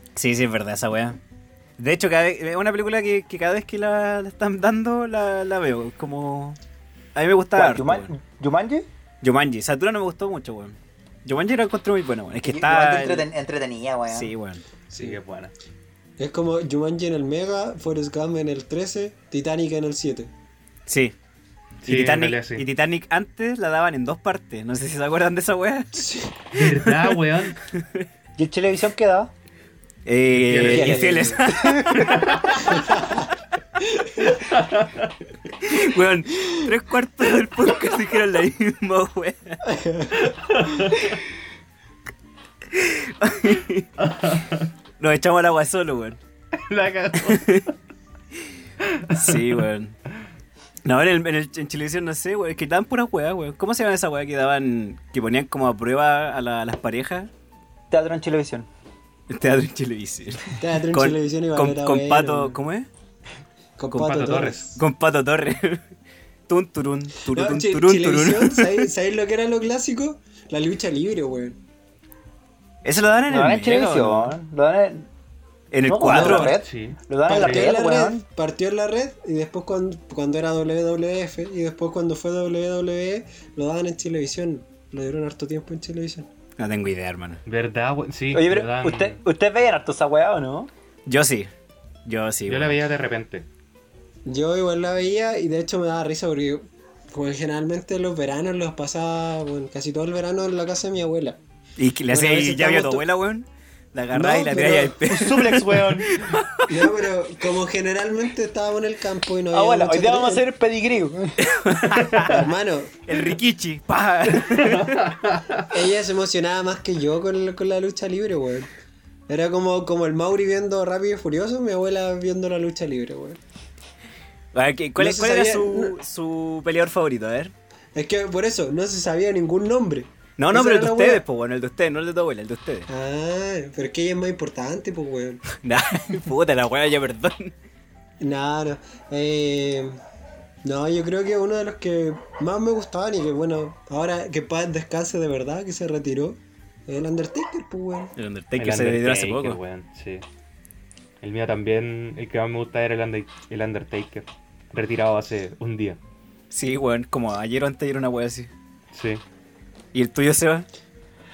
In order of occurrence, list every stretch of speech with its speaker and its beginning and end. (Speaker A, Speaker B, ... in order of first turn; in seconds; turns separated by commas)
Speaker A: 0.2-1.2, Speaker A: 1.8-6.6, Speaker A: 7.2-8.1, Speaker B: 7.6-8.9, Speaker A: 9.2-13.3, Speaker B: 12.4-14.3, Speaker A: 14.1-14.6, Speaker C: 14.9-15.2, Speaker D: 14.9-15.5, Speaker C: 16.2-20.3, Speaker A: 20.9-21.1, Speaker D: 21.8-22.6, Speaker A: 21.8-26.1, Speaker C: 26.0-26.3, Speaker D: 26.5-27.6, Speaker A: 26.7-28.1, Speaker B: 28.4-29.3, Speaker A: 30.1-32.3, Speaker D: 30.5-31.3, Speaker C: 30.7-31.4, Speaker B: 30.7-32.1, Speaker D: 32.0-32.8, Speaker C: 32.7-33.0, Speaker D: 34.3-35.1, Speaker A: 35.6-39.6, Speaker C: 39.6-40.2, Speaker D: 40.2-41.1, Speaker A: 42.7-43.9, Speaker D: 44.0-44.7, Speaker A: 45.0-46.2, Speaker D: 46.6-47.6, Speaker A: 47.2-47.7, Speaker D: 48.9-49.5, Speaker A: 49.1-50.0, Speaker A: 50.9-57.3, Speaker B: 57.9-58.7, Speaker A: 59.3-62.9, Speaker C: 60.6-62.6, Speaker C: 63.8-64.8, Speaker A: 63.9-65.8, Speaker D: 64.0-64.7, Speaker A: 66.5-68.8, Speaker C: 67.3-71.6, Speaker A: 72.8-74.3, Speaker B: 73.3-75.1, Speaker A: 75.7-76.6, Speaker B: 75.9-78.2, Speaker D: 76.3-77.7, Speaker C: 77.3-86.3, Speaker A: 86.6-87.4, Speaker D: 87.5-89.2, Speaker B: 88.3-90.7, Speaker A: 91.1-91.5, Speaker A: 92.1-92.8, Speaker D: 92.5-93.5, Speaker C: 94.3-101.4, Speaker A: 101.8-106.9, Speaker C: 102.1-103.1, Speaker C: 104.1-105.0, Speaker B: 105.1-106.1, Speaker C: 106.7-110.4, Speaker B: 109.5-111.6, Speaker A: 111.5-112.4, Speaker C: 112.2-113.0, Speaker A: 113.1-115.0, Speaker D: 114.5-115.6, Speaker C: 115.7-118.7, Speaker C: 119.3-123.4, Speaker A: 124.5-127.5, Speaker C: 125.0-126.0, Speaker C: 127.9-131.2, Speaker A: 130.4-132.9, Speaker C: 132.9-135.4, Speaker A: 135.6-137.5, Speaker C: 138.2-140.0, Speaker C: 140.6-148.1, Speaker A: 148.2-149.6, Speaker D: 148.6-150.2, Speaker D: 151.2-156.0, Speaker A: 156.5-158.5, Speaker D: 158.9-159.2, Speaker A: 159.9-160.7